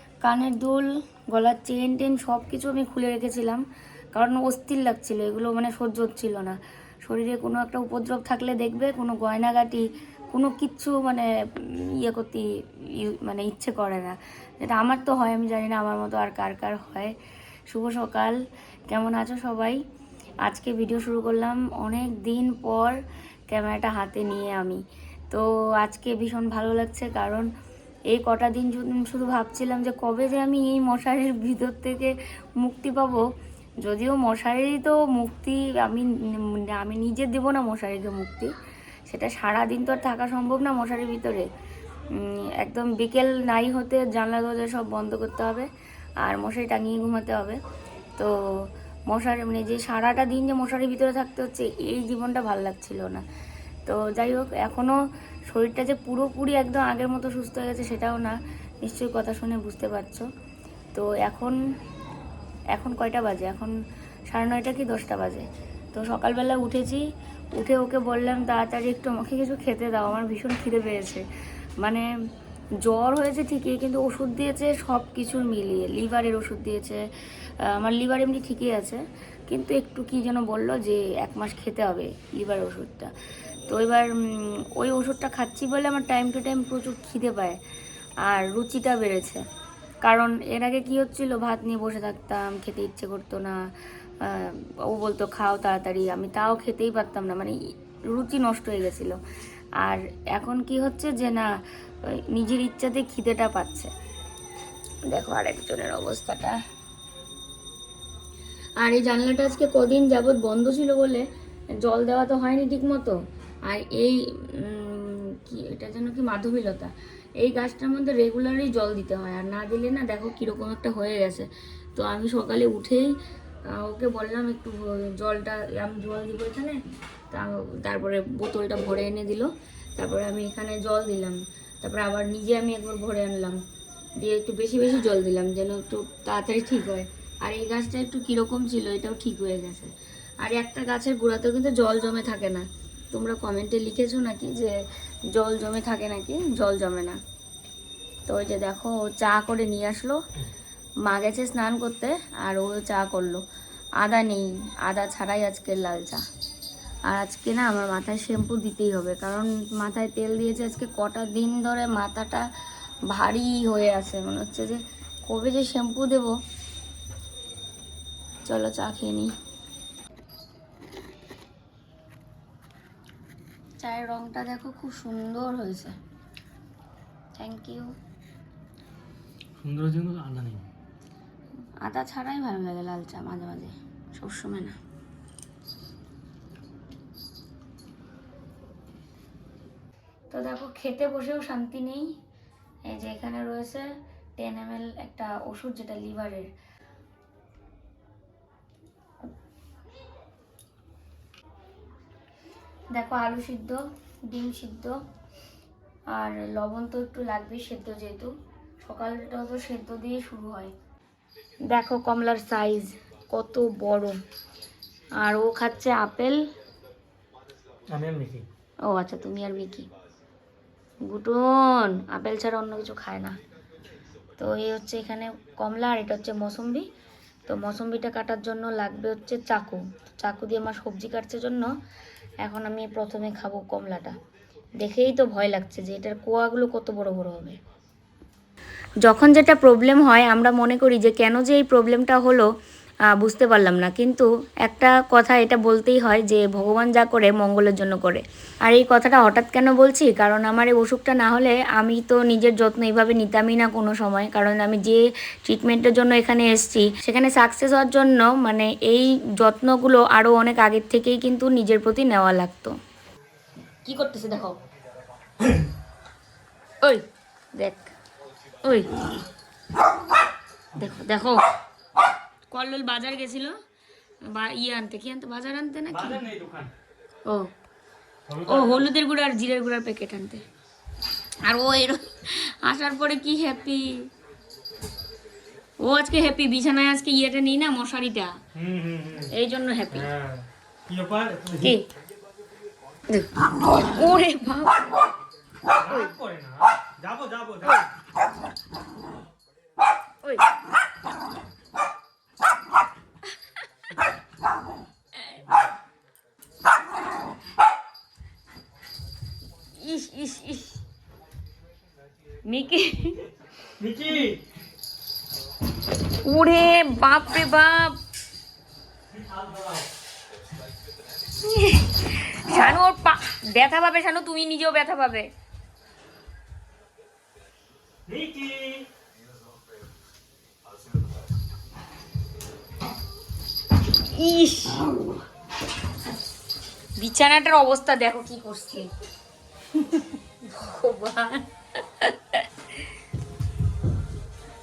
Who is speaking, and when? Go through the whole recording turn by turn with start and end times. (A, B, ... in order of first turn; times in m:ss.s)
0:00.2-0:17.1 A
0:17.7-0:18.4 A
0:18.9-0:19.8 A
0:20.4-0:23.0 A
0:23.5-0:27.5 A
0:28.1-0:33.3 A
0:33.8-0:38.5 A
0:39.1-0:41.5 A
0:42.1-0:45.7 A
0:46.2-0:47.6 A
0:48.2-0:53.2 A
0:53.9-0:54.9 A
0:55.5-1:00.3 A
1:00.9-1:01.6 A
1:02.7-1:03.7 A
1:04.3-1:11.2 A
1:11.8-1:12.1 A
1:12.8-1:17.0 A
1:17.6-1:23.1 A
1:23.7-1:27.6 A
1:28.2-1:29.4 A
1:30.0-1:33.6 A
1:34.2-1:39.2 A
1:39.8-1:41.5 A
1:42.0-1:43.9 A
1:45.1-1:46.6 A
1:48.8-1:51.3 A
1:51.8-2:03.1 A
2:03.7-2:06.8 A
2:07.3-2:13.6 A
2:14.2-2:19.9 A
2:20.4-2:24.8 A
2:25.3-2:27.2 A
2:28.3-2:30.2 A
2:31.0-2:33.4 A
2:34.0-2:36.2 A
2:37.1-2:42.5 A
2:43.1-2:46.4 A
2:48.4-2:49.3 A
2:53.8-2:56.0 A
2:57.4-2:57.9 A
2:59.6-3:00.7 B
3:01.8-3:04.8 A
3:10.3-3:12.1 A
3:12.9-3:16.5 A
3:22.9-3:25.0 A
3:26.1-3:30.7 A
3:31.7-3:34.2 A
3:35.2-3:36.4 A
3:37.9-3:38.5 B
3:38.9-3:39.9 A
3:41.1-3:43.4 A
3:44.4-3:46.9 A
3:47.5-3:51.7 A
3:52.4-3:54.2 A
3:54.8-3:57.6 A
3:59.0-4:02.5 A
4:03.2-4:22.8 A
4:23.8-4:24.6 A
4:27.6-4:27.9 A
4:28.6-4:29.1 A
4:30.8-4:31.5 A
4:32.5-4:33.5 A
4:34.2-4:36.2 A
4:35.9-4:36.7 B
4:38.3-4:38.9 B
4:38.5-4:40.4 A
4:41.4-4:44.1 A
4:45.8-4:48.4 A
4:48.6-4:49.3 B
4:49.3-4:50.1 A
4:49.9-4:51.8 B
4:51.6-4:51.9 A
4:53.1-4:54.9 A
4:55.7-4:57.9 B
5:09.8-5:10.8 A
5:12.5-5:13.2 A
5:13.8-5:14.4 B
5:16.2-5:18.0 A
5:19.1-5:19.9 B
5:21.4-5:25.3 A
5:28.1-5:28.9 B
5:34.1-5:34.9 A
5:37.0-5:38.9 A
5:39.7-5:42.4 A